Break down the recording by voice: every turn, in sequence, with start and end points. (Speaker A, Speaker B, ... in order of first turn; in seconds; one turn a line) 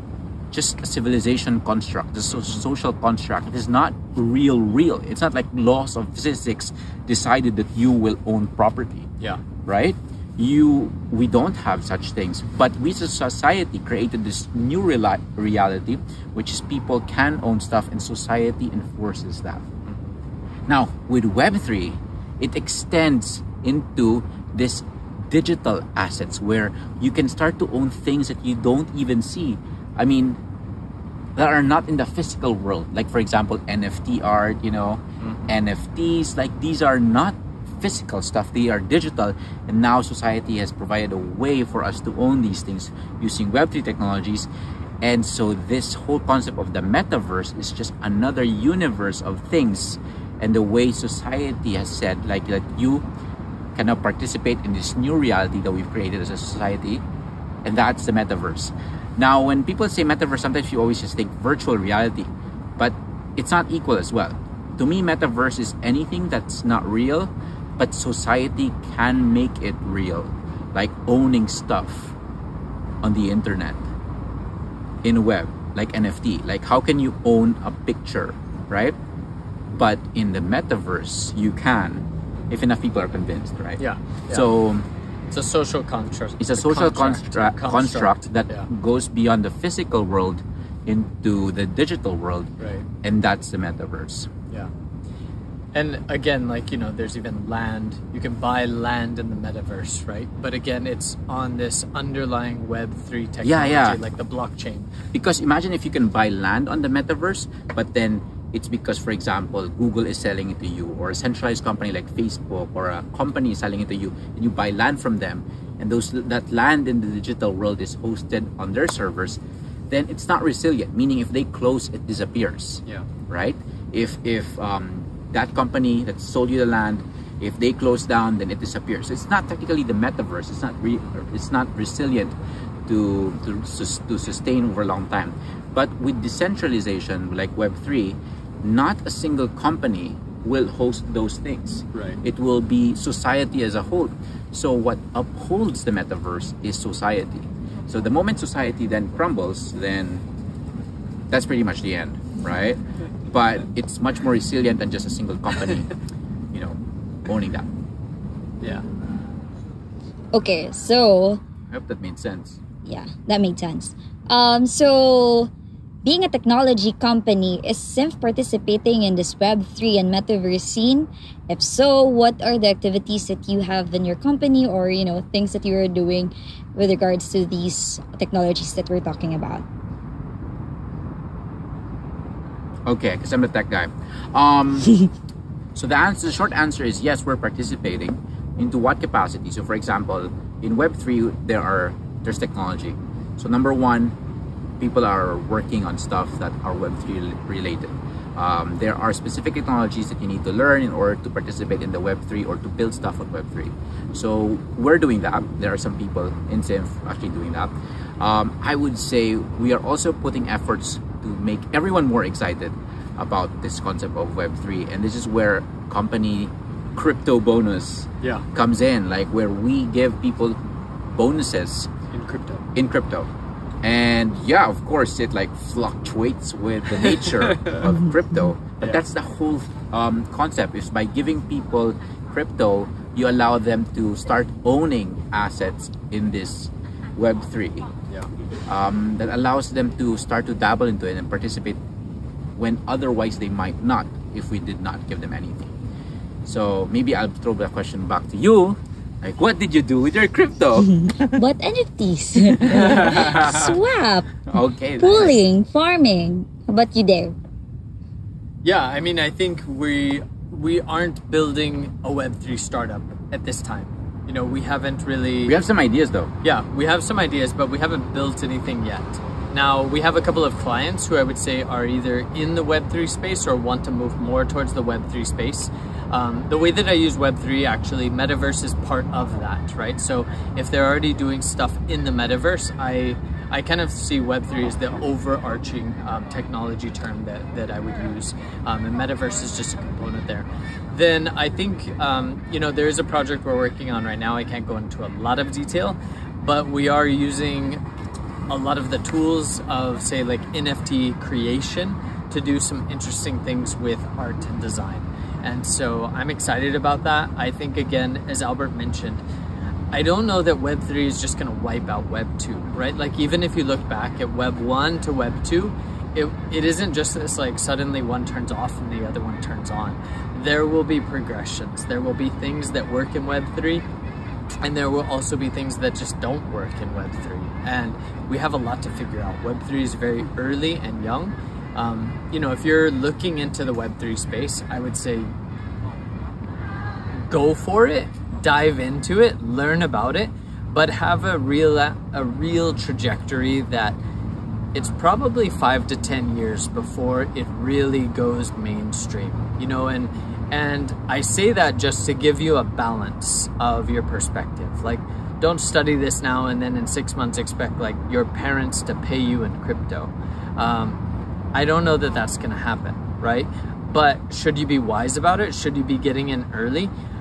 Speaker A: 0.5-9.1
Speaker A: 9.7-19.6
Speaker B: 19.9-20.1
Speaker A: 20.7-30.4
Speaker A: 31.4-44.5
Speaker A: 45.0-53.0
Speaker A: 53.7-57.0
Speaker A: 57.6-72.1
Speaker A: 73.0-73.8
Speaker A: 75.0-79.0
Speaker A: 79.7-84.8
Speaker B: 83.8-84.5
Speaker B: 85.3-88.7
Speaker A: 86.4-92.5
Speaker B: 92.6-92.9
Speaker A: 93.0-94.3
Speaker B: 95.7-104.9
Speaker A: 103.4-104.0
Speaker A: 105.1-132.3
Speaker A: 132.9-150.2
Speaker B: 141.9-142.2
Speaker A: 151.3-155.9
Speaker A: 156.5-157.7
Speaker C: 160.3-161.4
Speaker A: 161.7-162.6
Speaker C: 162.8-165.5
Speaker C: 166.0-179.6
Speaker A: 182.9-184.9
Speaker A: 185.7-194.1
Speaker A: 194.8-220.6
Speaker A: 221.1-221.9
Speaker B: 222.1-222.6
Speaker A: 222.7-223.3
Speaker A: 223.8-237.9
Speaker B: 227.0-227.8
Speaker C: 227.8-228.5
Speaker A: 238.7-241.8
Speaker A: 242.6-245.7
Speaker A: 246.4-251.0
Speaker C: 250.9-257.3
Speaker A: 252.6-253.7
Speaker B: 252.9-253.5
Speaker A: 254.5-255.4
Speaker B: 258.6-265.6
Speaker A: 265.4-266.3
Speaker B: 266.4-297.8
Speaker B: 298.5-309.2
Speaker B: 309.9-323.9
Speaker B: 324.6-335.3
Speaker B: 337.1-344.0
Speaker B: 344.7-361.0
Speaker B: 361.5-366.9